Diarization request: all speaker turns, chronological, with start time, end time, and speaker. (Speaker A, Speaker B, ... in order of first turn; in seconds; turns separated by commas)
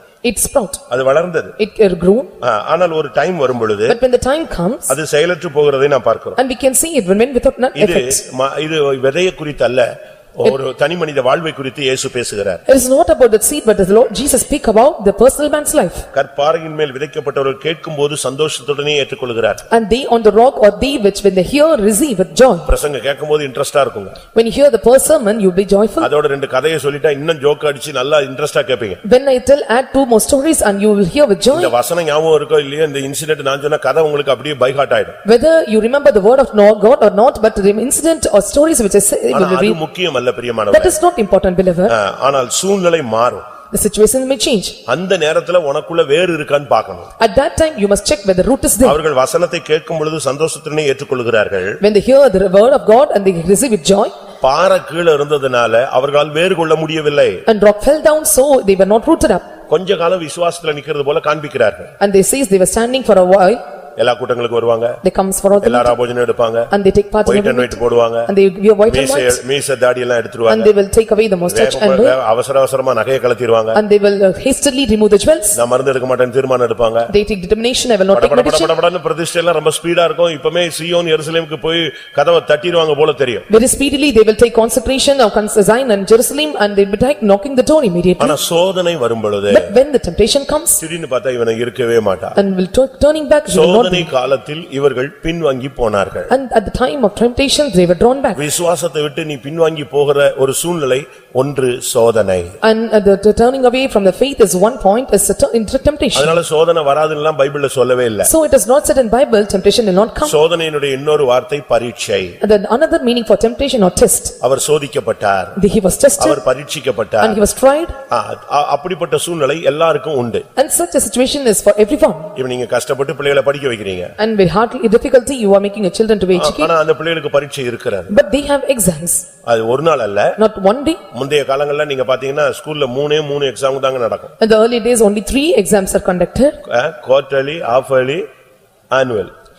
Speaker A: 0.2-0.8, Speaker B: 0.9-1.5, Speaker A: 1.6-2.3, Speaker B: 2.4-4.0, Speaker A: 3.9-4.9, Speaker B: 4.9-6.4, Speaker A: 6.3-8.2, Speaker B: 7.7-12.6, Speaker A: 12.7-16.0, Speaker B: 16.1-19.6, Speaker A: 19.7-22.7, Speaker B: 22.7-24.2, Speaker A: 24.3-26.1, Speaker B: 26.0-29.0, Speaker A: 29.0-31.7, Speaker B: 31.5-35.2, Speaker A: 35.2-39.8, Speaker B: 39.3-40.9, Speaker A: 40.7-41.9, Speaker B: 41.9-43.4, Speaker A: 43.7-44.8, Speaker B: 44.9-47.1, Speaker A: 47.2-49.0, Speaker B: 48.8-51.8, Speaker A: 51.8-54.1, Speaker B: 54.4-57.4, Speaker A: 57.5-59.5, Speaker B: 59.7-61.9, Speaker A: 62.0-63.6, Speaker B: 64.0-65.0, Speaker A: 65.0-66.0, Speaker B: 65.6-66.7, Speaker A: 66.7-69.4, Speaker B: 67.2-68.3, Speaker B: 68.9-70.7, Speaker A: 70.5-72.2, Speaker B: 71.5-73.8, Speaker A: 73.7-75.6, Speaker B: 75.5-77.1, Speaker A: 77.1-78.7, Speaker B: 78.1-83.5, Speaker A: 83.5-88.4, Speaker B: 88.2-89.7, Speaker A: 89.5-90.8, Speaker B: 90.8-92.3, Speaker A: 92.3-94.1, Speaker B: 93.5-96.3, Speaker A: 96.3-98.4, Speaker B: 98.3-102.5, Speaker A: 102.6-106.4, Speaker B: 106.1-108.3, Speaker A: 108.2-110.4, Speaker B: 110.2-112.4, Speaker A: 112.4-114.4, Speaker B: 114.4-115.6, Speaker A: 115.5-116.4, Speaker B: 116.2-117.4, Speaker A: 117.2-117.9, Speaker B: 118.1-120.4, Speaker A: 120.5-122.3, Speaker B: 122.3-124.1, Speaker A: 124.2-126.7, Speaker B: 126.3-128.1, Speaker A: 128.1-129.2, Speaker B: 129.4-130.3, Speaker A: 130.4-131.0, Speaker B: 131.1-134.3, Speaker A: 134.4-136.6, Speaker B: 136.7-138.2, Speaker B: 138.9-139.3